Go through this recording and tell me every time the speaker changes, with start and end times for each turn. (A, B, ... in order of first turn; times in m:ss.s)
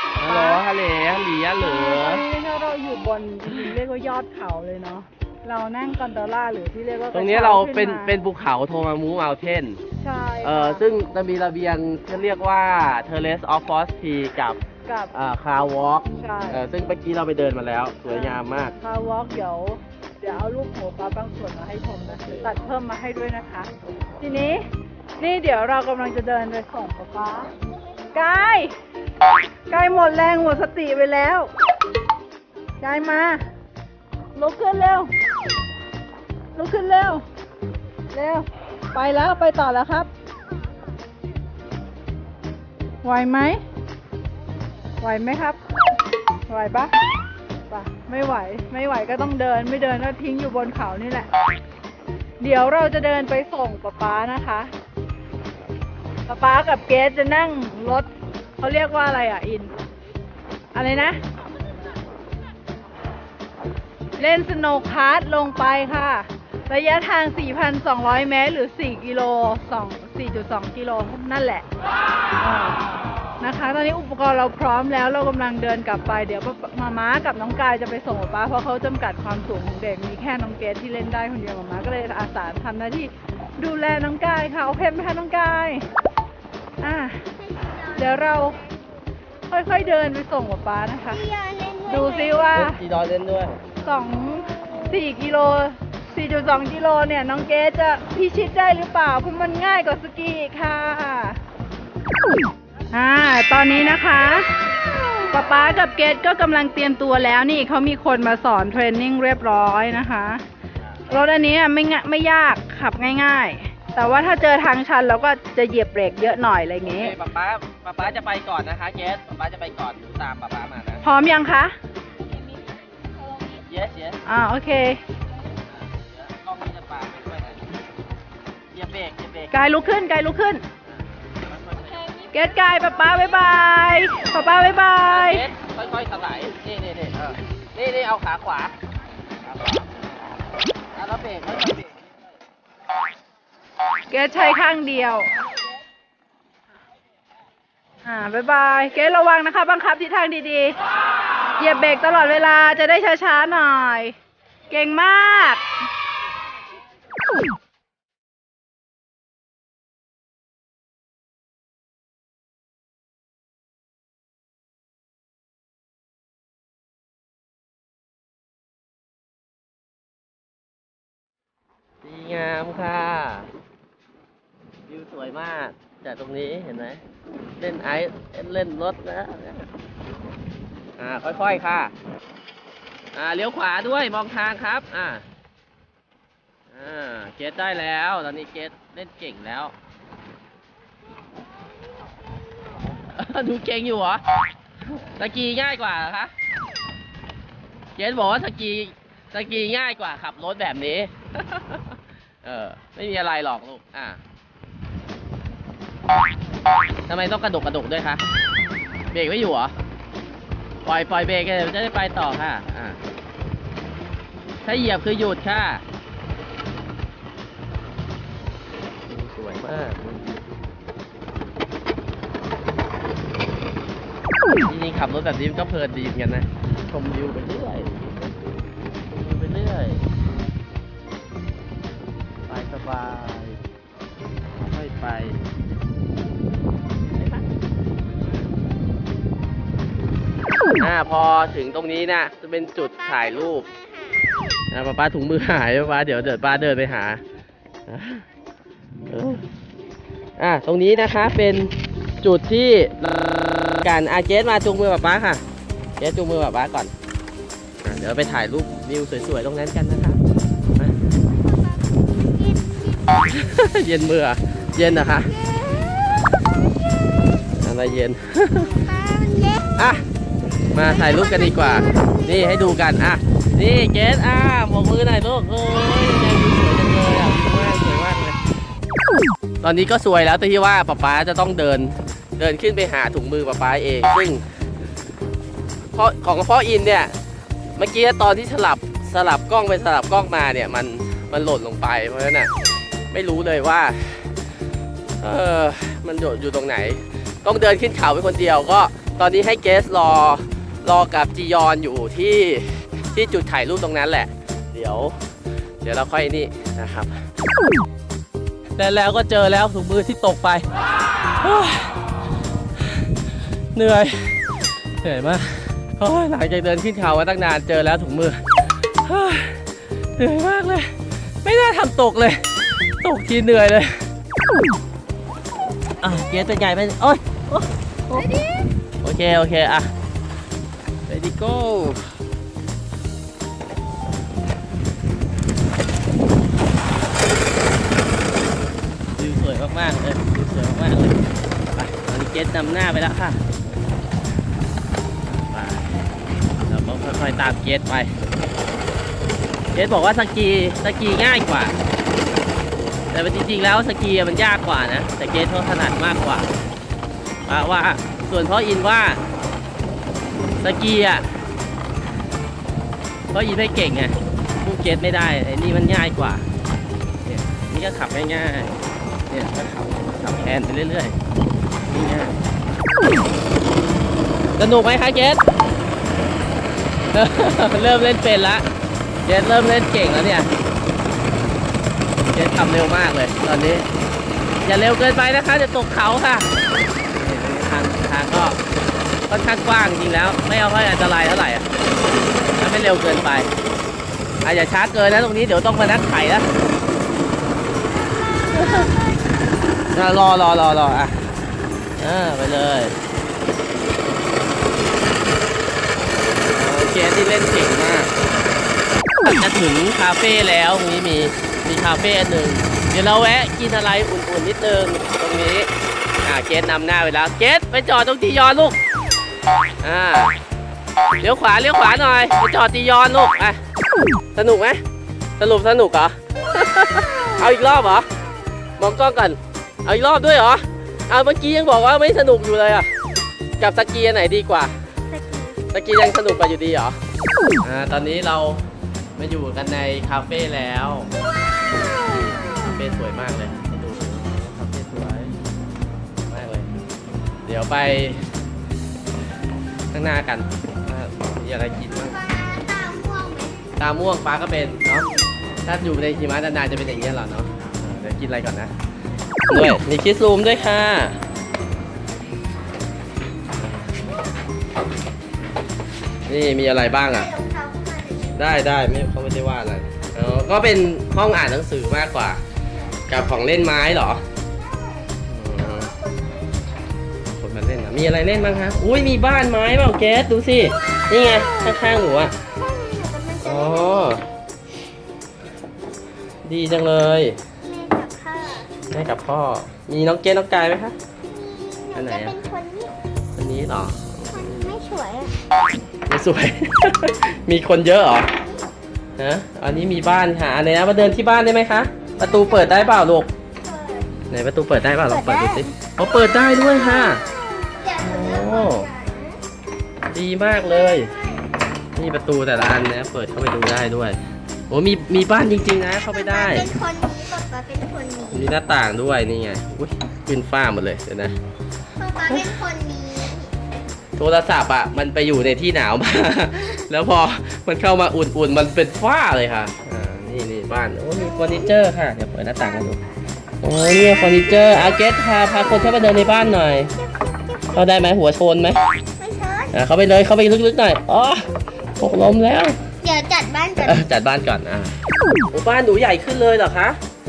0:00.2-0:02.2 A
0:00.2-0:00.6 B
0:01.6-0:08.1 B
0:03.5-0:03.8 A
0:07.1-0:09.8 A
0:10.0-0:10.8 B
0:10.4-0:14.6 A
0:14.9-0:15.1 B
0:15.1-0:18.8 A
0:16.1-0:16.6 B
0:18.1-0:24.6 B
0:25.2-0:27.5 B
0:28.1-0:28.7 B
0:29.7-0:31.5 B
0:32.8-0:33.4 B
0:34.4-0:35.1 B
0:36.6-0:37.2 B
0:38.1-0:40.1 B
0:43.0-0:43.6 B
0:45.0-0:45.6 B
0:46.5-0:46.9 B
0:47.7-0:51.3 B
0:52.4-0:54.7 B
0:56.3-0:59.7 B
1:00.7-1:01.2 B
1:04.2-1:11.6 B
1:12.4-1:12.8 B
1:13.4-1:25.8 B
1:26.8-1:27.2 B
1:27.4-1:28.6 C
1:28.0-1:28.6 B
1:29.5-1:31.3 B
1:31.1-1:32.6 C
1:31.9-1:32.8 B
1:32.5-1:33.6 A
1:33.8-1:41.4 B
1:42.9-1:44.5 B
1:45.3-1:50.4 B
1:51.1-1:57.2 B
1:56.8-2:01.0 A
2:01.0-2:01.8 B
2:03.5-2:04.2 A
2:04.3-2:05.0 B
2:05.8-2:07.7 A
2:08.7-2:09.5 A
2:09.5-2:10.6 B
2:10.9-2:12.1 A
2:12.3-2:15.5 B
2:15.1-2:18.7 A
2:19.4-2:20.0 A
2:21.0-2:22.0 A
2:24.1-2:25.3 B
2:28.0-2:30.8 B
2:31.6-2:34.2 B
2:34.7-2:35.6 B
2:52.0-2:53.5 A
2:54.9-2:57.0 A
2:57.6-2:59.7 A
3:01.0-3:01.9 A
3:03.1-3:05.2 A
3:06.7-3:09.7 A
3:13.1-3:14.2 A
3:15.0-3:16.3 A
3:18.0-3:24.2 A
3:27.1-3:28.2 A
3:29.1-3:29.7 A
3:30.8-3:33.0 A
3:34.6-3:35.8 A
3:39.1-3:40.3 A
3:44.6-3:48.3 A
3:49.1-3:50.0 A
3:52.5-3:53.6 A
3:54.6-3:55.4 A
3:57.2-3:57.5 A
4:00.8-4:03.7 A
4:04.7-4:07.2 A
4:07.9-4:08.2 A
4:09.1-4:09.4 A
4:10.4-4:15.4 A
4:16.0-4:16.9 A
4:17.8-4:20.2 A
4:21.3-4:23.4 C
4:23.3-4:25.3 A
4:25.3-4:27.5 C
4:27.6-4:28.8 A
4:28.6-4:29.8 C
4:29.8-4:30.1 A
4:30.7-4:38.4 A
4:30.8-4:32.8 C
4:39.6-4:44.4 A
4:45.9-4:47.2 A
4:47.8-4:52.5 A
4:53.1-4:54.3 A
4:55.2-5:05.2 A
5:05.8-5:07.2 A
5:08.8-5:10.7 A
5:11.4-5:11.9 A
5:13.7-5:14.4 A
5:15.0-5:18.4 A
5:19.0-5:19.6 A
5:20.2-5:20.9 A
5:21.4-5:22.4 A
5:23.0-5:24.0 A
5:26.0-5:28.4 A
5:29.0-5:29.9 A
5:31.1-5:32.2 A
5:39.2-5:41.2 A
5:41.7-5:43.4 A
5:45.3-5:46.0 A
5:46.7-5:48.2 A
5:49.7-5:51.8 A
5:53.1-5:56.5 A
5:57.5-5:59.2 A
6:00.6-6:01.3 A
6:03.3-6:06.4 A
6:07.2-6:08.8 A
6:09.3-6:11.2 A
6:11.9-6:12.4 A
6:14.6-6:15.4 A
6:17.1-6:18.6 A
6:19.2-6:20.5 A
6:22.3-6:23.9 A
6:24.6-6:26.5 A
6:27.1-6:28.6 A
6:29.3-6:31.7 A
6:32.6-6:33.5 A
6:34.4-6:36.5 A
6:37.9-6:39.4 C
6:38.5-6:39.0 A
6:39.9-6:41.2 A
6:42.0-6:43.0 A
6:46.5-6:48.1 A
6:49.2-6:55.7 A
6:56.2-6:58.8 A
6:59.8-7:00.4 A
7:01.2-7:03.6 A
7:04.4-7:04.8 A
7:05.4-7:08.1 A
7:08.8-7:12.9 A
7:13.6-7:14.7 A
7:15.1-7:15.7 C
7:15.7-7:17.0 A
7:17.6-7:18.7 A
7:19.2-7:21.1 A
7:21.8-7:25.4 A
7:26.3-7:26.7 A
7:27.5-7:28.2 A
7:29.9-7:32.2 A
7:31.9-7:33.7 C
7:33.8-7:35.1 A
7:35.6-7:38.7 A
7:39.5-7:41.2 A
7:43.6-7:44.0 A
7:46.3-7:47.3 A
7:47.1-7:48.6 C
7:48.3-7:52.4 A
7:53.1-7:54.2 A
7:54.5-7:56.9 C
7:55.3-7:55.9 A
7:57.4-8:02.4 A
8:02.5-8:04.2 C
8:03.4-8:04.2 A
8:06.4-8:07.4 A
8:07.7-8:08.8 C
8:08.9-8:11.0 A
8:11.4-8:12.9 C
8:11.9-8:12.4 A
8:13.4-8:14.6 A
8:14.3-8:15.3 C
8:16.1-8:18.3 A
8:18.3-8:18.7 C
8:19.2-8:23.3 A
8:22.2-8:22.7 C
8:23.6-8:24.2 C
8:24.3-8:27.2 A
8:25.1-8:25.7 C
8:27.1-8:29.4 C
8:28.0-8:28.9 A
8:30.1-8:31.1 A
8:30.7-8:31.4 C
8:32.0-8:34.2 A
8:34.7-8:36.7 A
8:36.0-8:38.5 C
8:38.3-8:41.4 A
8:42.0-8:43.5 C
8:42.3-8:42.6 A
8:44.2-8:53.0 A
8:51.2-8:51.7 C
8:53.6-8:56.9 A
8:54.0-8:55.0 C
8:55.6-8:57.9 C
8:57.7-8:58.8 A
8:59.2-8:59.8 C
8:59.7-9:01.4 A
9:02.0-9:02.8 A
9:03.0-9:04.0 C
9:03.8-9:04.9 A
9:05.5-9:07.0 A